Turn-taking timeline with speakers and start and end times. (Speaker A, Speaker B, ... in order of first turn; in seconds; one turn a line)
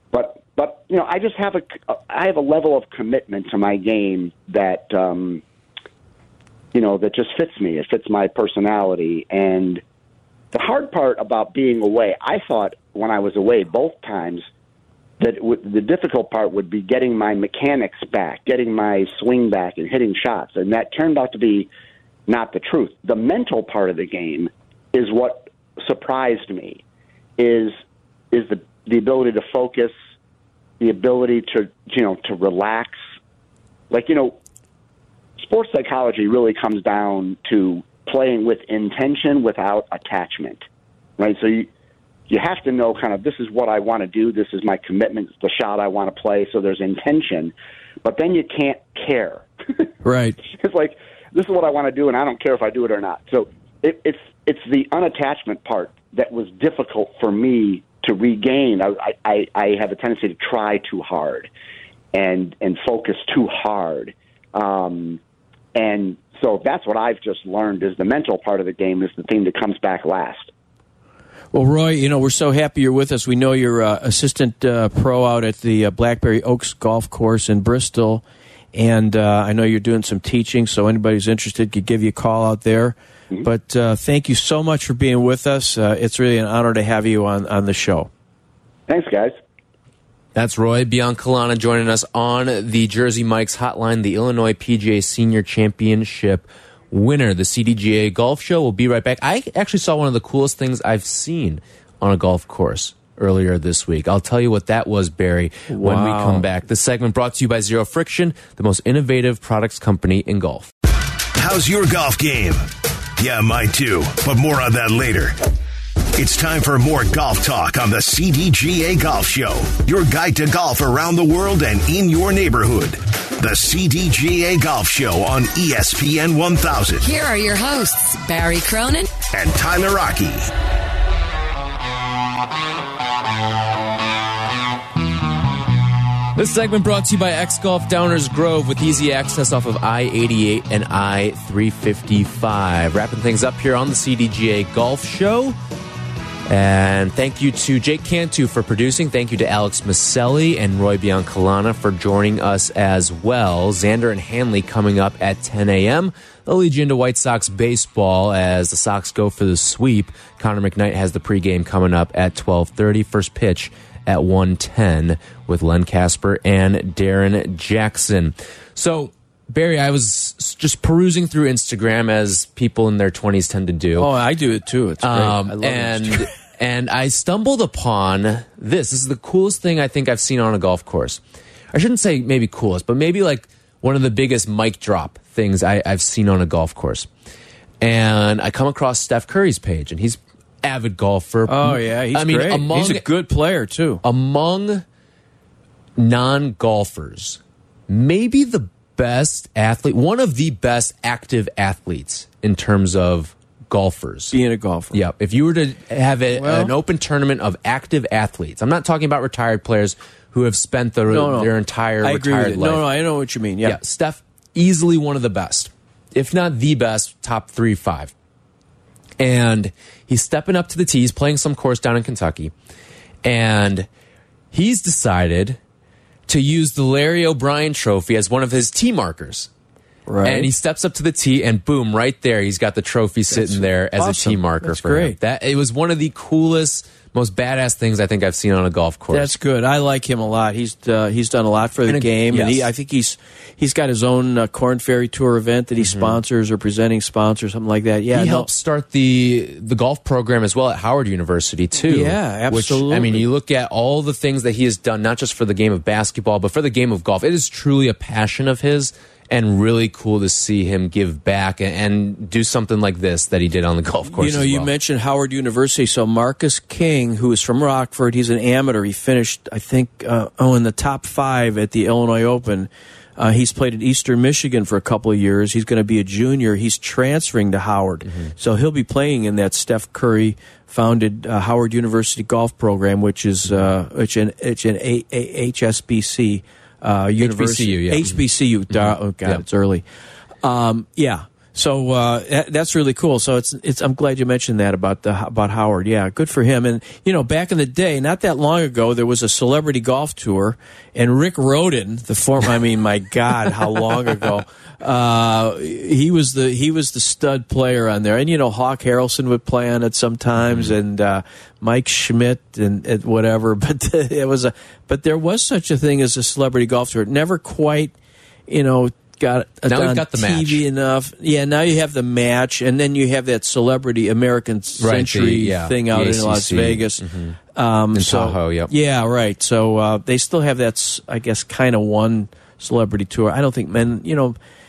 Speaker A: 0.1-5.4
Speaker A: 6.7-9.8
Speaker A: 10.5-14.4
Speaker A: 15.2-21.7
Speaker A: 22.3-26.8
Speaker A: 27.4-27.7
Speaker A: 28.3-29.9
Speaker A: 30.8-33.0
Speaker A: 33.9-34.4
Speaker A: 35.4-40.6
Speaker A: 41.2-41.7
Speaker A: 42.3-49.9
Speaker B: 50.0-50.4
Speaker A: 50.4-61.5
Speaker A: 62.1-65.2
Speaker A: 65.7-70.5
Speaker B: 71.5-78.2
Speaker B: 78.7-88.1
Speaker A: 88.9-89.4
Speaker C: 90.3-110.7
Speaker B: 105.7-106.5
Speaker D: 111.3-115.4
Speaker D: 116.2-127.1
Speaker E: 127.0-129.1
Speaker D: 129.3-130.5
Speaker C: 136.3-145.6
Speaker C: 146.5-174.1
Speaker B: 173.9-176.3
Speaker C: 175.0-181.2
Speaker C: 181.7-187.1
Speaker C: 187.8-193.1
Speaker B: 191.5-194.0
Speaker C: 194.0-194.8
Speaker C: 196.0-204.4
Speaker B: 204.3-205.0
Speaker C: 204.9-212.9
Speaker B: 206.3-206.7
Speaker B: 211.1-211.5
Speaker B: 212.0-213.8
Speaker C: 213.6-218.1
Speaker C: 219.2-222.5
Speaker C: 223.2-223.9
Speaker C: 224.5-225.6
Speaker C: 226.3-229.5
Speaker B: 230.1-230.5
Speaker C: 230.2-239.3
Speaker B: 233.3-235.2
Speaker B: 239.1-248.5
Speaker C: 241.9-242.7
Speaker C: 245.8-246.2
Speaker C: 248.1-264.7
Speaker B: 251.8-253.3
Speaker B: 264.1-289.8
Speaker C: 287.2-289.4
Speaker B: 290.4-317.9
Speaker C: 310.5-310.7
Speaker B: 318.5-334.4
Speaker C: 319.7-320.6
Speaker C: 324.8-327.4
Speaker C: 327.9-328.7